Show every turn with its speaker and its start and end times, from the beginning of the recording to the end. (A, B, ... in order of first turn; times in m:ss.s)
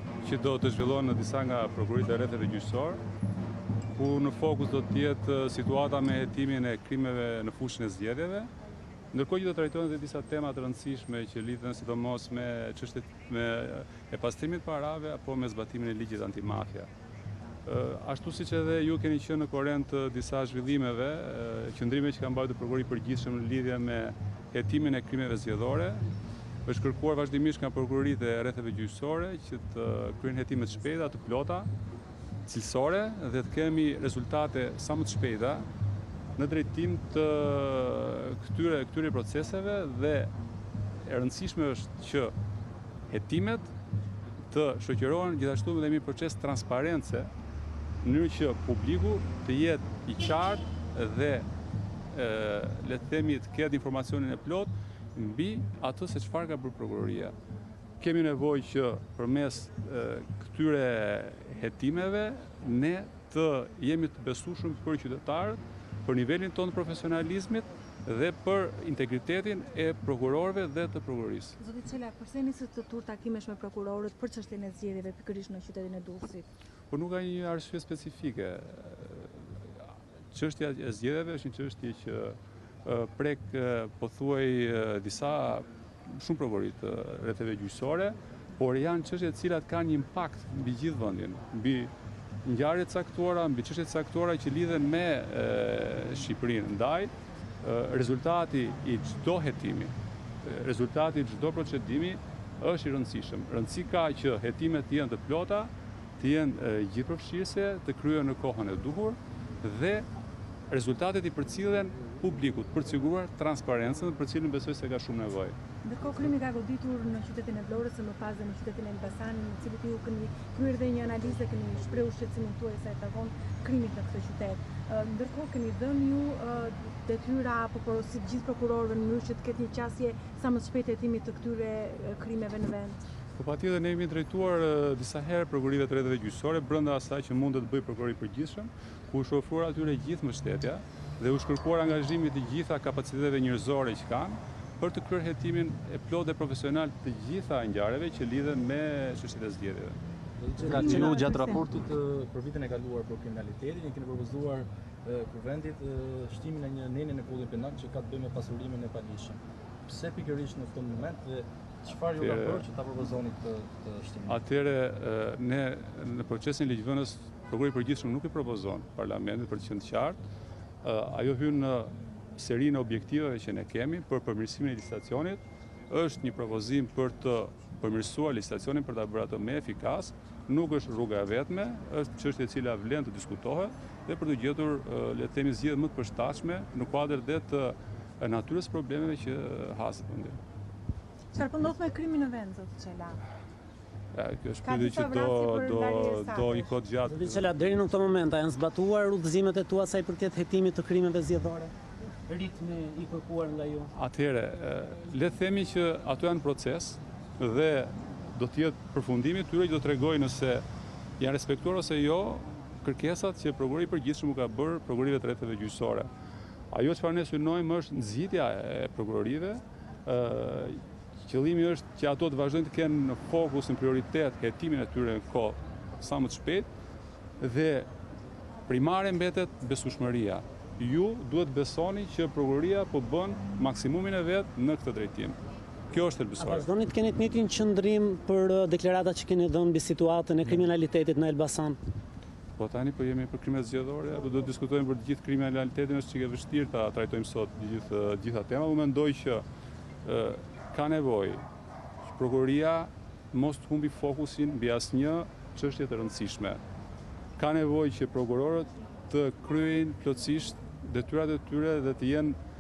0:00.2-0:03.0 A
0:04.0-0:08.5 A
0:09.1-0:16.9 A
0:17.6-0:26.0 A
0:26.7-0:31.7 A
0:32.5-0:35.7 A
0:36.4-0:40.3 A
0:41.0-0:42.3 A
0:43.1-0:43.7 A
0:44.5-0:47.3 A
0:48.0-0:51.5 A
0:52.1-0:57.4 A
0:58.0-1:11.6 A
1:11.6-1:16.5 B
1:16.9-1:19.5 A
1:20.3-1:31.9 A
1:32.4-1:37.1 A
1:37.6-1:50.1 A
1:50.7-1:55.6 A
1:55.8-2:13.0 B
2:13.4-2:30.0 A
2:30.4-2:44.4 C
2:30.6-2:31.6 B
2:30.7-2:31.5 D
2:42.2-2:42.6 A
2:44.3-2:50.2 A
2:50.8-3:10.4 A
3:11.3-3:13.2 B
3:14.1-3:17.5 A
3:14.6-3:16.7 B
3:17.1-3:21.7 D
3:22.3-3:23.9 D
3:23.9-3:30.6 A
3:31.2-3:36.1 A
3:36.7-3:46.7 A
3:47.4-3:47.9 A
3:48.7-3:55.4 A
3:55.9-3:56.7 A
3:56.4-4:01.8 D
4:02.6-4:09.4 A
4:10.0-4:11.4 A
4:12.1-4:16.6 A
4:17.4-4:22.4 A